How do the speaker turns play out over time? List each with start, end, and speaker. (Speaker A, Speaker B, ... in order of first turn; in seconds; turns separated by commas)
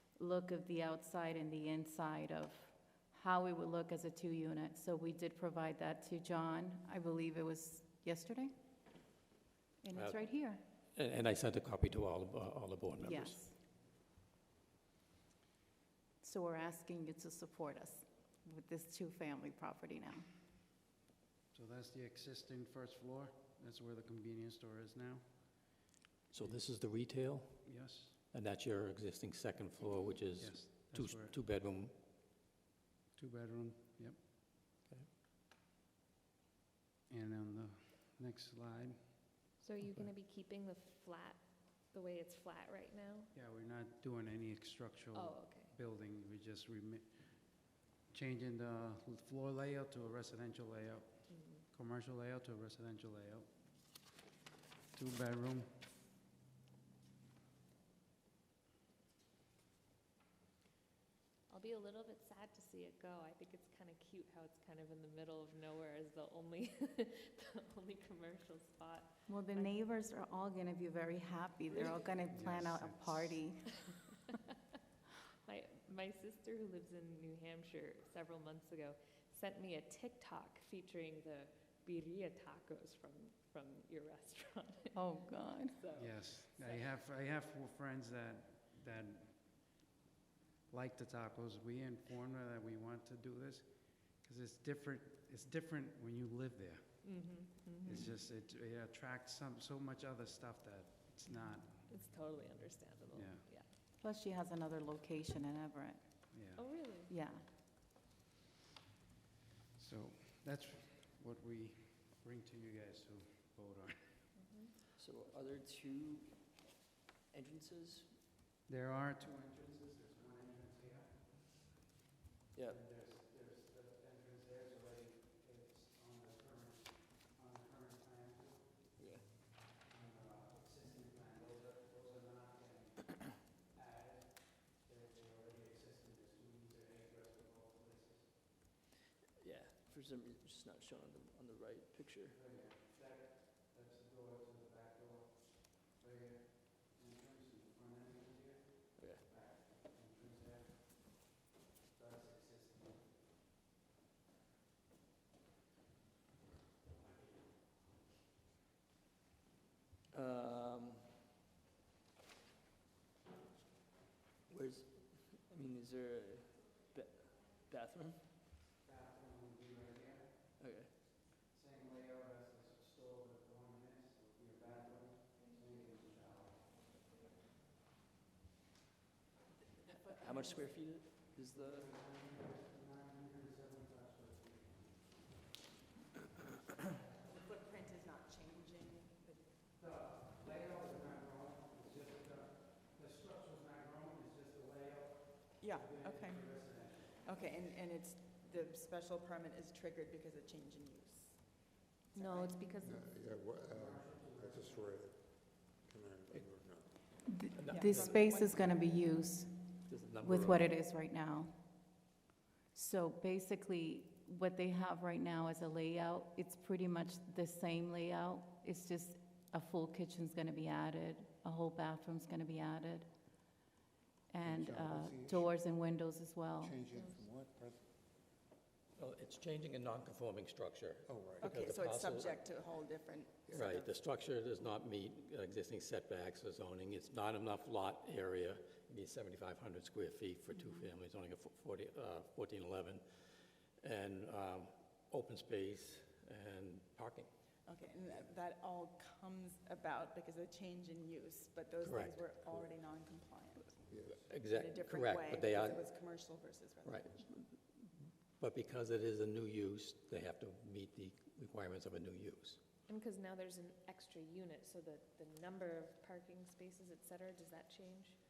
Speaker A: 0.1-8.6, Speaker A: 9.8-10.6, Speaker B: 9.9-10.3, Speaker B: 10.9-13.5, Speaker A: 13.0-13.6, Speaker A: 16.2-20.3, Speaker C: 21.5-26.8, Speaker B: 26.3-31.9, Speaker C: 27.6-28.2, Speaker C: 30.4-31.4, Speaker C: 33.1-34.3, Speaker C: 37.1-40.1, Speaker D: 39.6-43.3, Speaker C: 43.3-54.0, Speaker D: 45.1-45.8, Speaker D: 51.3-51.6, Speaker C: 54.9-55.8, Speaker D: 61.5-69.8, Speaker A: 69.3-73.8, Speaker C: 72.3-73.4, Speaker D: 75.4-85.0, Speaker A: 85.0-85.8, Speaker D: 85.7-86.9, Speaker C: 85.9-89.8, Speaker C: 90.7-97.2, Speaker D: 97.0-98.1, Speaker C: 97.8-101.9, Speaker D: 101.9-103.7, Speaker C: 103.1-103.5, Speaker A: 104.0-106.3, Speaker C: 106.3-106.7, Speaker D: 106.5-107.1, Speaker A: 107.1-107.5, Speaker C: 109.8-114.3, Speaker D: 114.3-114.7, Speaker E: 115.0-116.8, Speaker E: 117.3-118.2, Speaker C: 118.7-121.8, Speaker E: 122.5-122.9, Speaker C: 122.7-128.9, Speaker E: 129.0-129.3, Speaker C: 129.8-138.8, Speaker E: 139.4-142.4, Speaker C: 142.3-153.3, Speaker E: 148.9-149.6, Speaker C: 157.0-157.8, Speaker E: 160.1-161.3, Speaker E: 164.5-168.6, Speaker C: 168.8-170.5, Speaker E: 170.6-171.0, Speaker C: 171.5-176.8, Speaker D: 175.4-176.0, Speaker D: 176.9-177.2, Speaker E: 179.8-182.0, Speaker C: 181.7-185.5, Speaker C: 186.4-187.3, Speaker F: 187.3-189.6, Speaker C: 189.7-197.2, Speaker F: 195.6-201.6, Speaker F: 202.1-202.7, Speaker D: 202.1-203.1, Speaker G: 202.8-207.2, Speaker C: 203.4-205.1, Speaker A: 207.3-212.0, Speaker B: 207.5-208.1, Speaker F: 207.7-209.0, Speaker B: 209.8-210.7, Speaker A: 212.7-223.2, Speaker A: 224.3-226.8, Speaker G: 224.4-225.6, Speaker G: 226.6-228.0, Speaker D: 226.9-227.2, Speaker B: 229.0-232.4, Speaker G: 231.1-231.5, Speaker F: 231.4-233.9, Speaker B: 233.5-243.0, Speaker B: 243.8-247.3, Speaker F: 247.7-253.9, Speaker B: 251.8-252.2, Speaker G: 253.9-254.3, Speaker B: 254.1-255.9, Speaker F: 254.5-257.2, Speaker B: 256.8-262.6, Speaker D: 262.9-268.2